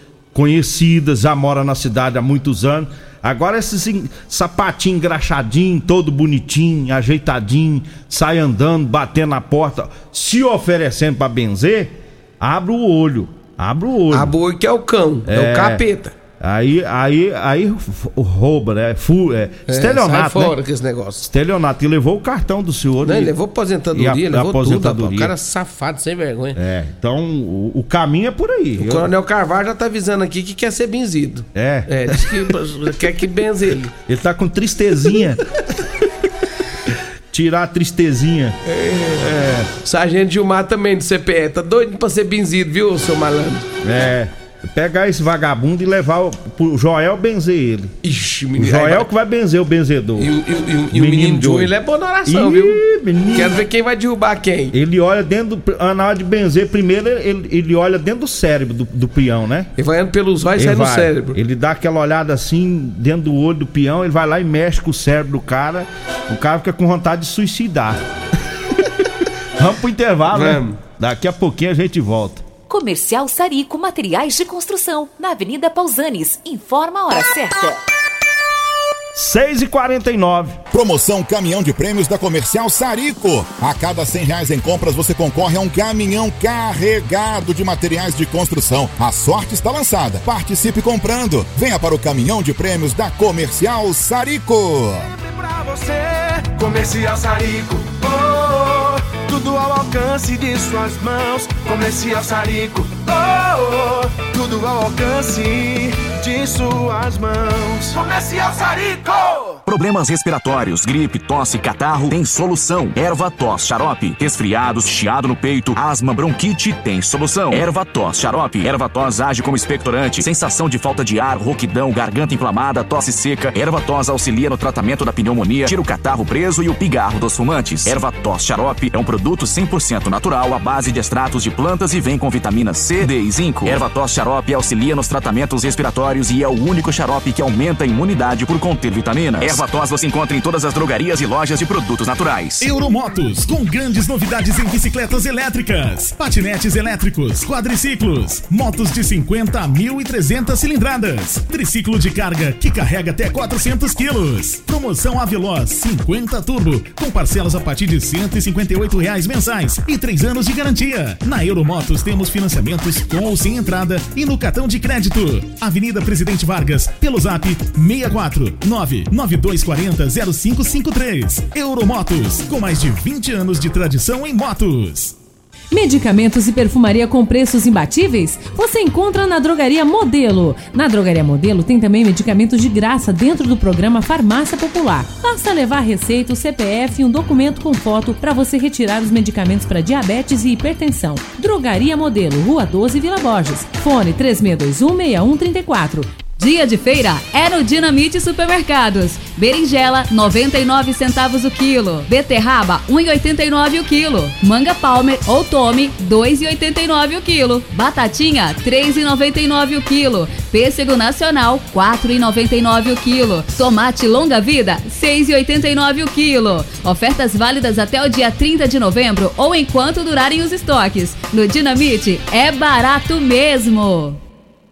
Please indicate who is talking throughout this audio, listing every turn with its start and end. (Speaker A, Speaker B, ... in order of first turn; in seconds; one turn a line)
Speaker A: 0.3-14.3
Speaker B: 14.1-16.1
Speaker A: 15.3-15.8
Speaker A: 16.4-20.6
Speaker B: 19.7-21.3
Speaker A: 21.3-23.3
Speaker B: 23.0-26.6
Speaker A: 23.9-25.3
Speaker A: 26.6-29.1
Speaker B: 28.8-33.9
Speaker A: 31.5-32.4
Speaker A: 34.1-35.4
Speaker A: 37.3-38.5
Speaker B: 38.6-39.3
Speaker A: 39.2-39.7
Speaker B: 39.8-43.7
Speaker A: 43.8-47.9
Speaker B: 48.0-49.1
Speaker A: 48.6-50.3
Speaker B: 50.2-52.8
Speaker A: 50.9-51.7
Speaker A: 52.3-53.6
Speaker B: 53.3-54.7
Speaker A: 54.7-59.7
Speaker B: 59.8-61.4
Speaker A: 60.6-68.0
Speaker A: 69.6-72.4
Speaker B: 70.3-70.8
Speaker C: 72.7-77.8
Speaker A: 79.2-80.6
Speaker D: 80.7-95.0
Speaker E: 95.1-109.5
Speaker F: 109.7-142.6
Speaker G: 142.6-175.2
Speaker H: 175.7-196.1
Speaker I: 196.4-224.2